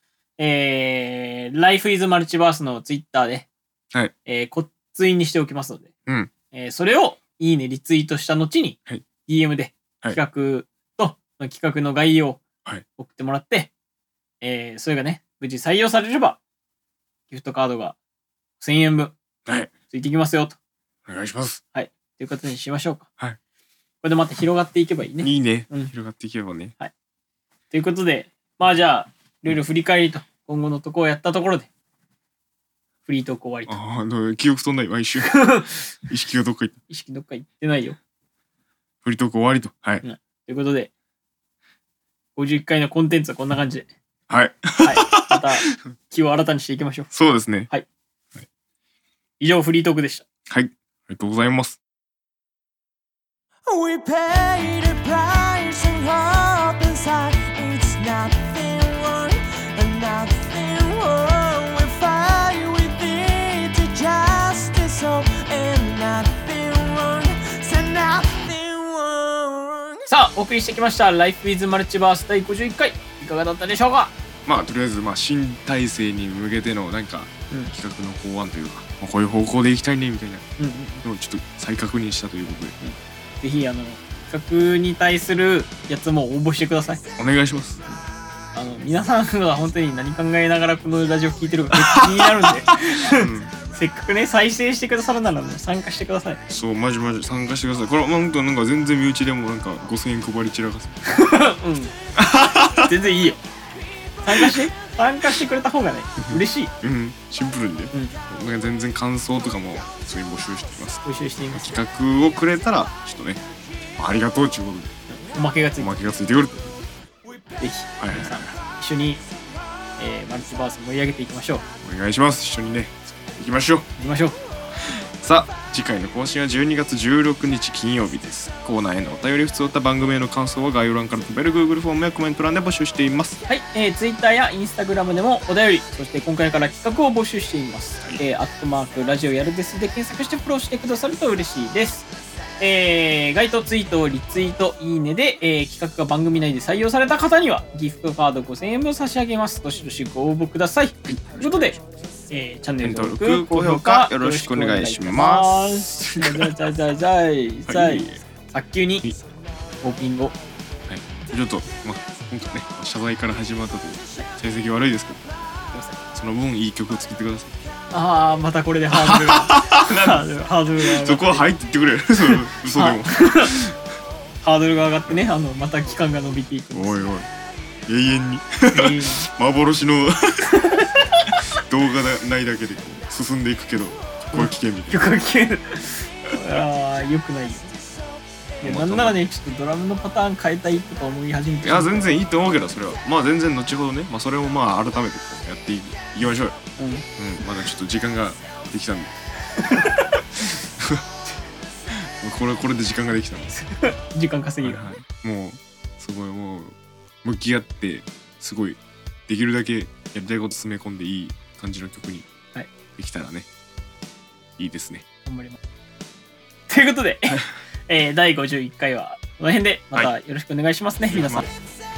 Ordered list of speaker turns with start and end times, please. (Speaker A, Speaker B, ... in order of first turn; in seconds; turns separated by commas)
Speaker A: 0.4-3.5, Speaker A: 4.2-5.9, Speaker B: 6.1-6.3, Speaker A: 6.5-12.4, Speaker A: 13.0-13.7, Speaker A: 14.4-16.4, Speaker A: 17.3-18.0, Speaker A: 18.6-19.1, Speaker B: 19.4-19.7, Speaker A: 19.9-20.6, Speaker B: 21.1-21.6, Speaker A: 21.7-23.1, Speaker A: 24.0-25.9, Speaker B: 25.2-26.7, Speaker A: 27.7-31.7, Speaker A: 33.0-33.8, Speaker B: 33.7-35.5, Speaker A: 35.2-35.9, Speaker B: 36.0-36.8, Speaker A: 36.9-38.0, Speaker B: 39.0-40.0, Speaker A: 40.0-40.9, Speaker A: 42.4-43.9, Speaker B: 44.3-45.8, Speaker A: 44.8-47.1, Speaker B: 47.1-47.7, Speaker A: 49.4-50.2, Speaker B: 50.5-51.8, Speaker C: 53.6-70.1, Speaker A: 70.1-74.1, Speaker B: 74.5-80.5, Speaker A: 80.6-81.0, Speaker B: 81.0-82.8, Speaker A: 82.8-87.0, Speaker B: 87.2-87.8, Speaker A: 88.5-96.4, Speaker B: 91.7-92.6, Speaker B: 93.1-93.5, Speaker B: 96.5-101.0, Speaker A: 101.0-101.9, Speaker B: 102.1-102.9, Speaker A: 102.8-103.4, Speaker A: 104.2-106.7, Speaker B: 104.3-104.7, Speaker B: 106.2-113.4, Speaker A: 111.0-111.7, Speaker B: 114.0-115.0, Speaker A: 115.1-115.9, Speaker B: 115.8-116.8, Speaker A: 117.6-119.2, Speaker B: 118.0-118.6, Speaker A: 120.0-121.6, Speaker B: 121.8-123.9, Speaker A: 124.0-124.4, Speaker B: 125.2-133.4, Speaker A: 133.5-151.8, Speaker B: 151.1-151.7, Speaker A: 152.3-159.1, Speaker B: 152.8-156.5, Speaker B: 157.7-158.2, Speaker A: 159.8-160.3, Speaker B: 160.9-165.2, Speaker B: 166.1-167.6, Speaker A: 167.9-171.5, Speaker B: 168.9-170.2, Speaker B: 170.8-173.8, Speaker A: 172.3-173.5, Speaker A: 174.4-177.1, Speaker B: 176.7-177.3, Speaker B: 177.9-185.1, Speaker A: 178.7-179.2, Speaker A: 180.4-181.3, Speaker A: 184.3-187.8, Speaker A: 188.6-192.1, Speaker B: 188.6-189.2, Speaker B: 191.6-196.6, Speaker A: 196.8-197.1, Speaker B: 197.2-199.2, Speaker B: 199.7-201.0, Speaker B: 201.9-203.6, Speaker A: 203.5-204.9, Speaker B: 204.6-212.3, Speaker B: 212.9-213.5, Speaker B: 214.6-215.1, Speaker A: 215.2-215.6, Speaker A: 216.7-221.5, Speaker B: 221.1-221.4